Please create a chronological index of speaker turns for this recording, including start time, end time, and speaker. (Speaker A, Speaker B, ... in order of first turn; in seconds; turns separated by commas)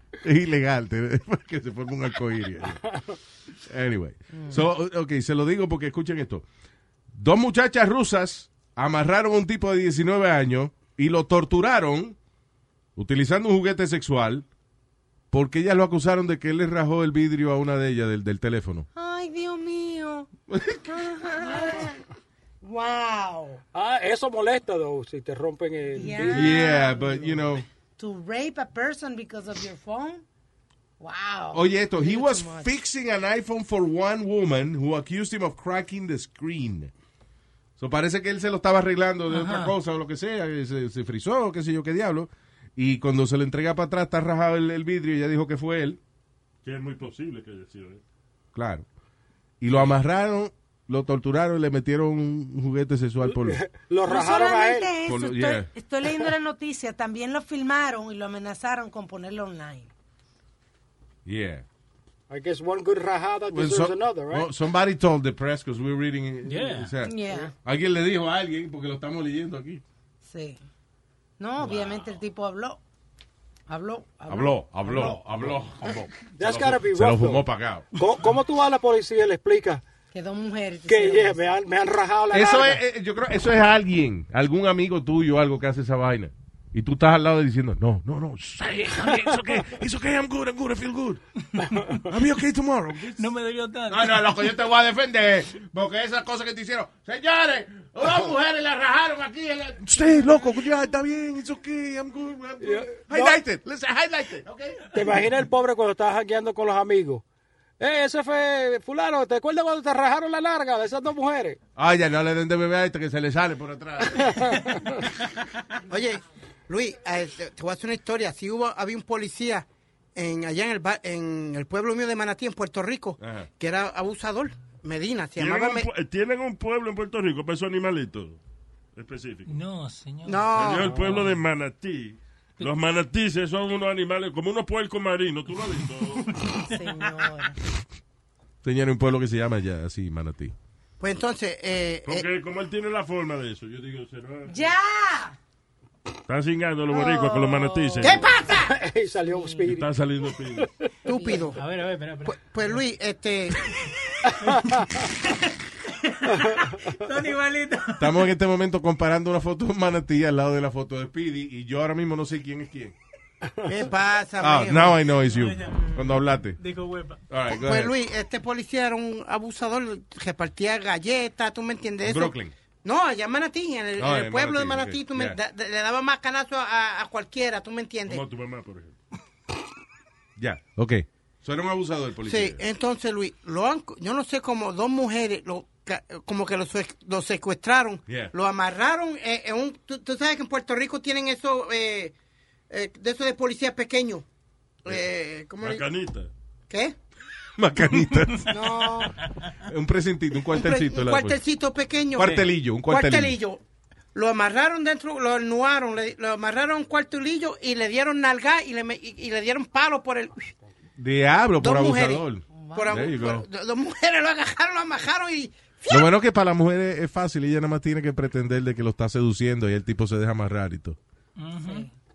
Speaker A: 0.2-2.8, Speaker A: 3.6-6.4, Speaker B: 4.3-4.6, Speaker A: 7.1-12.2, Speaker A: 12.9-14.4, Speaker A: 15.3-18.9, Speaker B: 18.9-20.3, Speaker A: 20.5-20.8, Speaker B: 20.9-22.0, Speaker B: 22.6-23.6, Speaker C: 23.7-26.6, Speaker B: 25.9-27.3, Speaker A: 26.2-27.6, Speaker B: 28.0-30.2, Speaker B: 31.0-32.7, Speaker A: 31.5-36.9, Speaker A: 37.8-46.0, Speaker D: 39.3-39.7, Speaker E: 46.6-48.0, Speaker A: 48.5-48.9, Speaker A: 49.6-53.6, Speaker C: 53.2-54.9, Speaker B: 54.0-59.9, Speaker A: 55.0-55.7, Speaker A: 61.2-61.6, Speaker C: 62.3-64.5, Speaker A: 63.5-69.8, Speaker D: 66.5-66.9, Speaker B: 67.0-67.5, Speaker B: 70.2-70.6, Speaker B: 71.4-72.8, Speaker A: 71.6-71.9, Speaker B: 73.7-75.1, Speaker A: 74.3-77.8, Speaker C: 76.3-77.4, Speaker C: 77.9-79.8, Speaker B: 80.1-81.5, Speaker C: 80.8-82.8, Speaker A: 82.3-91.2, Speaker D: 91.6-92.0, Speaker A: 92.0-93.3, Speaker D: 93.2-94.4, Speaker A: 93.9-104.8, Speaker C: 102.6-103.4, Speaker C: 104.9-107.2, Speaker C: 107.8-111.6, Speaker A: 111.8-114.6, Speaker C: 114.2-115.0, Speaker F: 115.9-125.9, Speaker A: 123.2-123.5, Speaker E: 125.4-128.4, Speaker E: 128.9-129.5, Speaker D: 129.5-130.5, Speaker F: 130.2-131.1, Speaker E: 130.5-136.3, Speaker D: 136.3-136.8, Speaker B: 136.6-137.6, Speaker A: 138.6-140.5, Speaker F: 141.0-142.2, Speaker E: 142.1-144.6, Speaker B: 144.5-145.3, Speaker E: 146.3-148.3, Speaker F: 148.0-148.7, Speaker C: 148.5-149.9, Speaker B: 149.3-149.7, Speaker E: 149.7-150.7, Speaker F: 151.0-151.6, Speaker B: 151.1-151.4, Speaker D: 151.5-152.4, Speaker F: 152.2-153.6, Speaker C: 154.3-155.0, Speaker D: 154.5-158.2, Speaker C: 156.3-156.7, Speaker A: 158.0-162.9, Speaker F: 163.6-165.0, Speaker A: 164.4-166.6, Speaker D: 165.3-167.2, Speaker A: 167.3-167.9, Speaker F: 167.5-178.2, Speaker A: 172.0-172.5, Speaker A: 174.0-175.4, Speaker E: 178.1-178.9, Speaker A: 180.4-182.6, Speaker F: 182.2-192.1, Speaker A: 188.1-188.3, Speaker F: 192.7-194.2, Speaker F: 194.8-195.8, Speaker E: 195.6-196.3, Speaker F: 196.7-196.9, Speaker A: 197.6-198.6, Speaker F: 198.5-199.1, Speaker A: 199.6-201.4, Speaker F: 200.5-203.6, Speaker A: 202.1-203.4, Speaker F: 204.1-210.5, Speaker A: 211.0-213.4, Speaker F: 211.6-216.1, Speaker B: 212.5-213.1, Speaker A: 215.9-221.0, Speaker D: 221.4-221.9, Speaker B: 221.6-221.9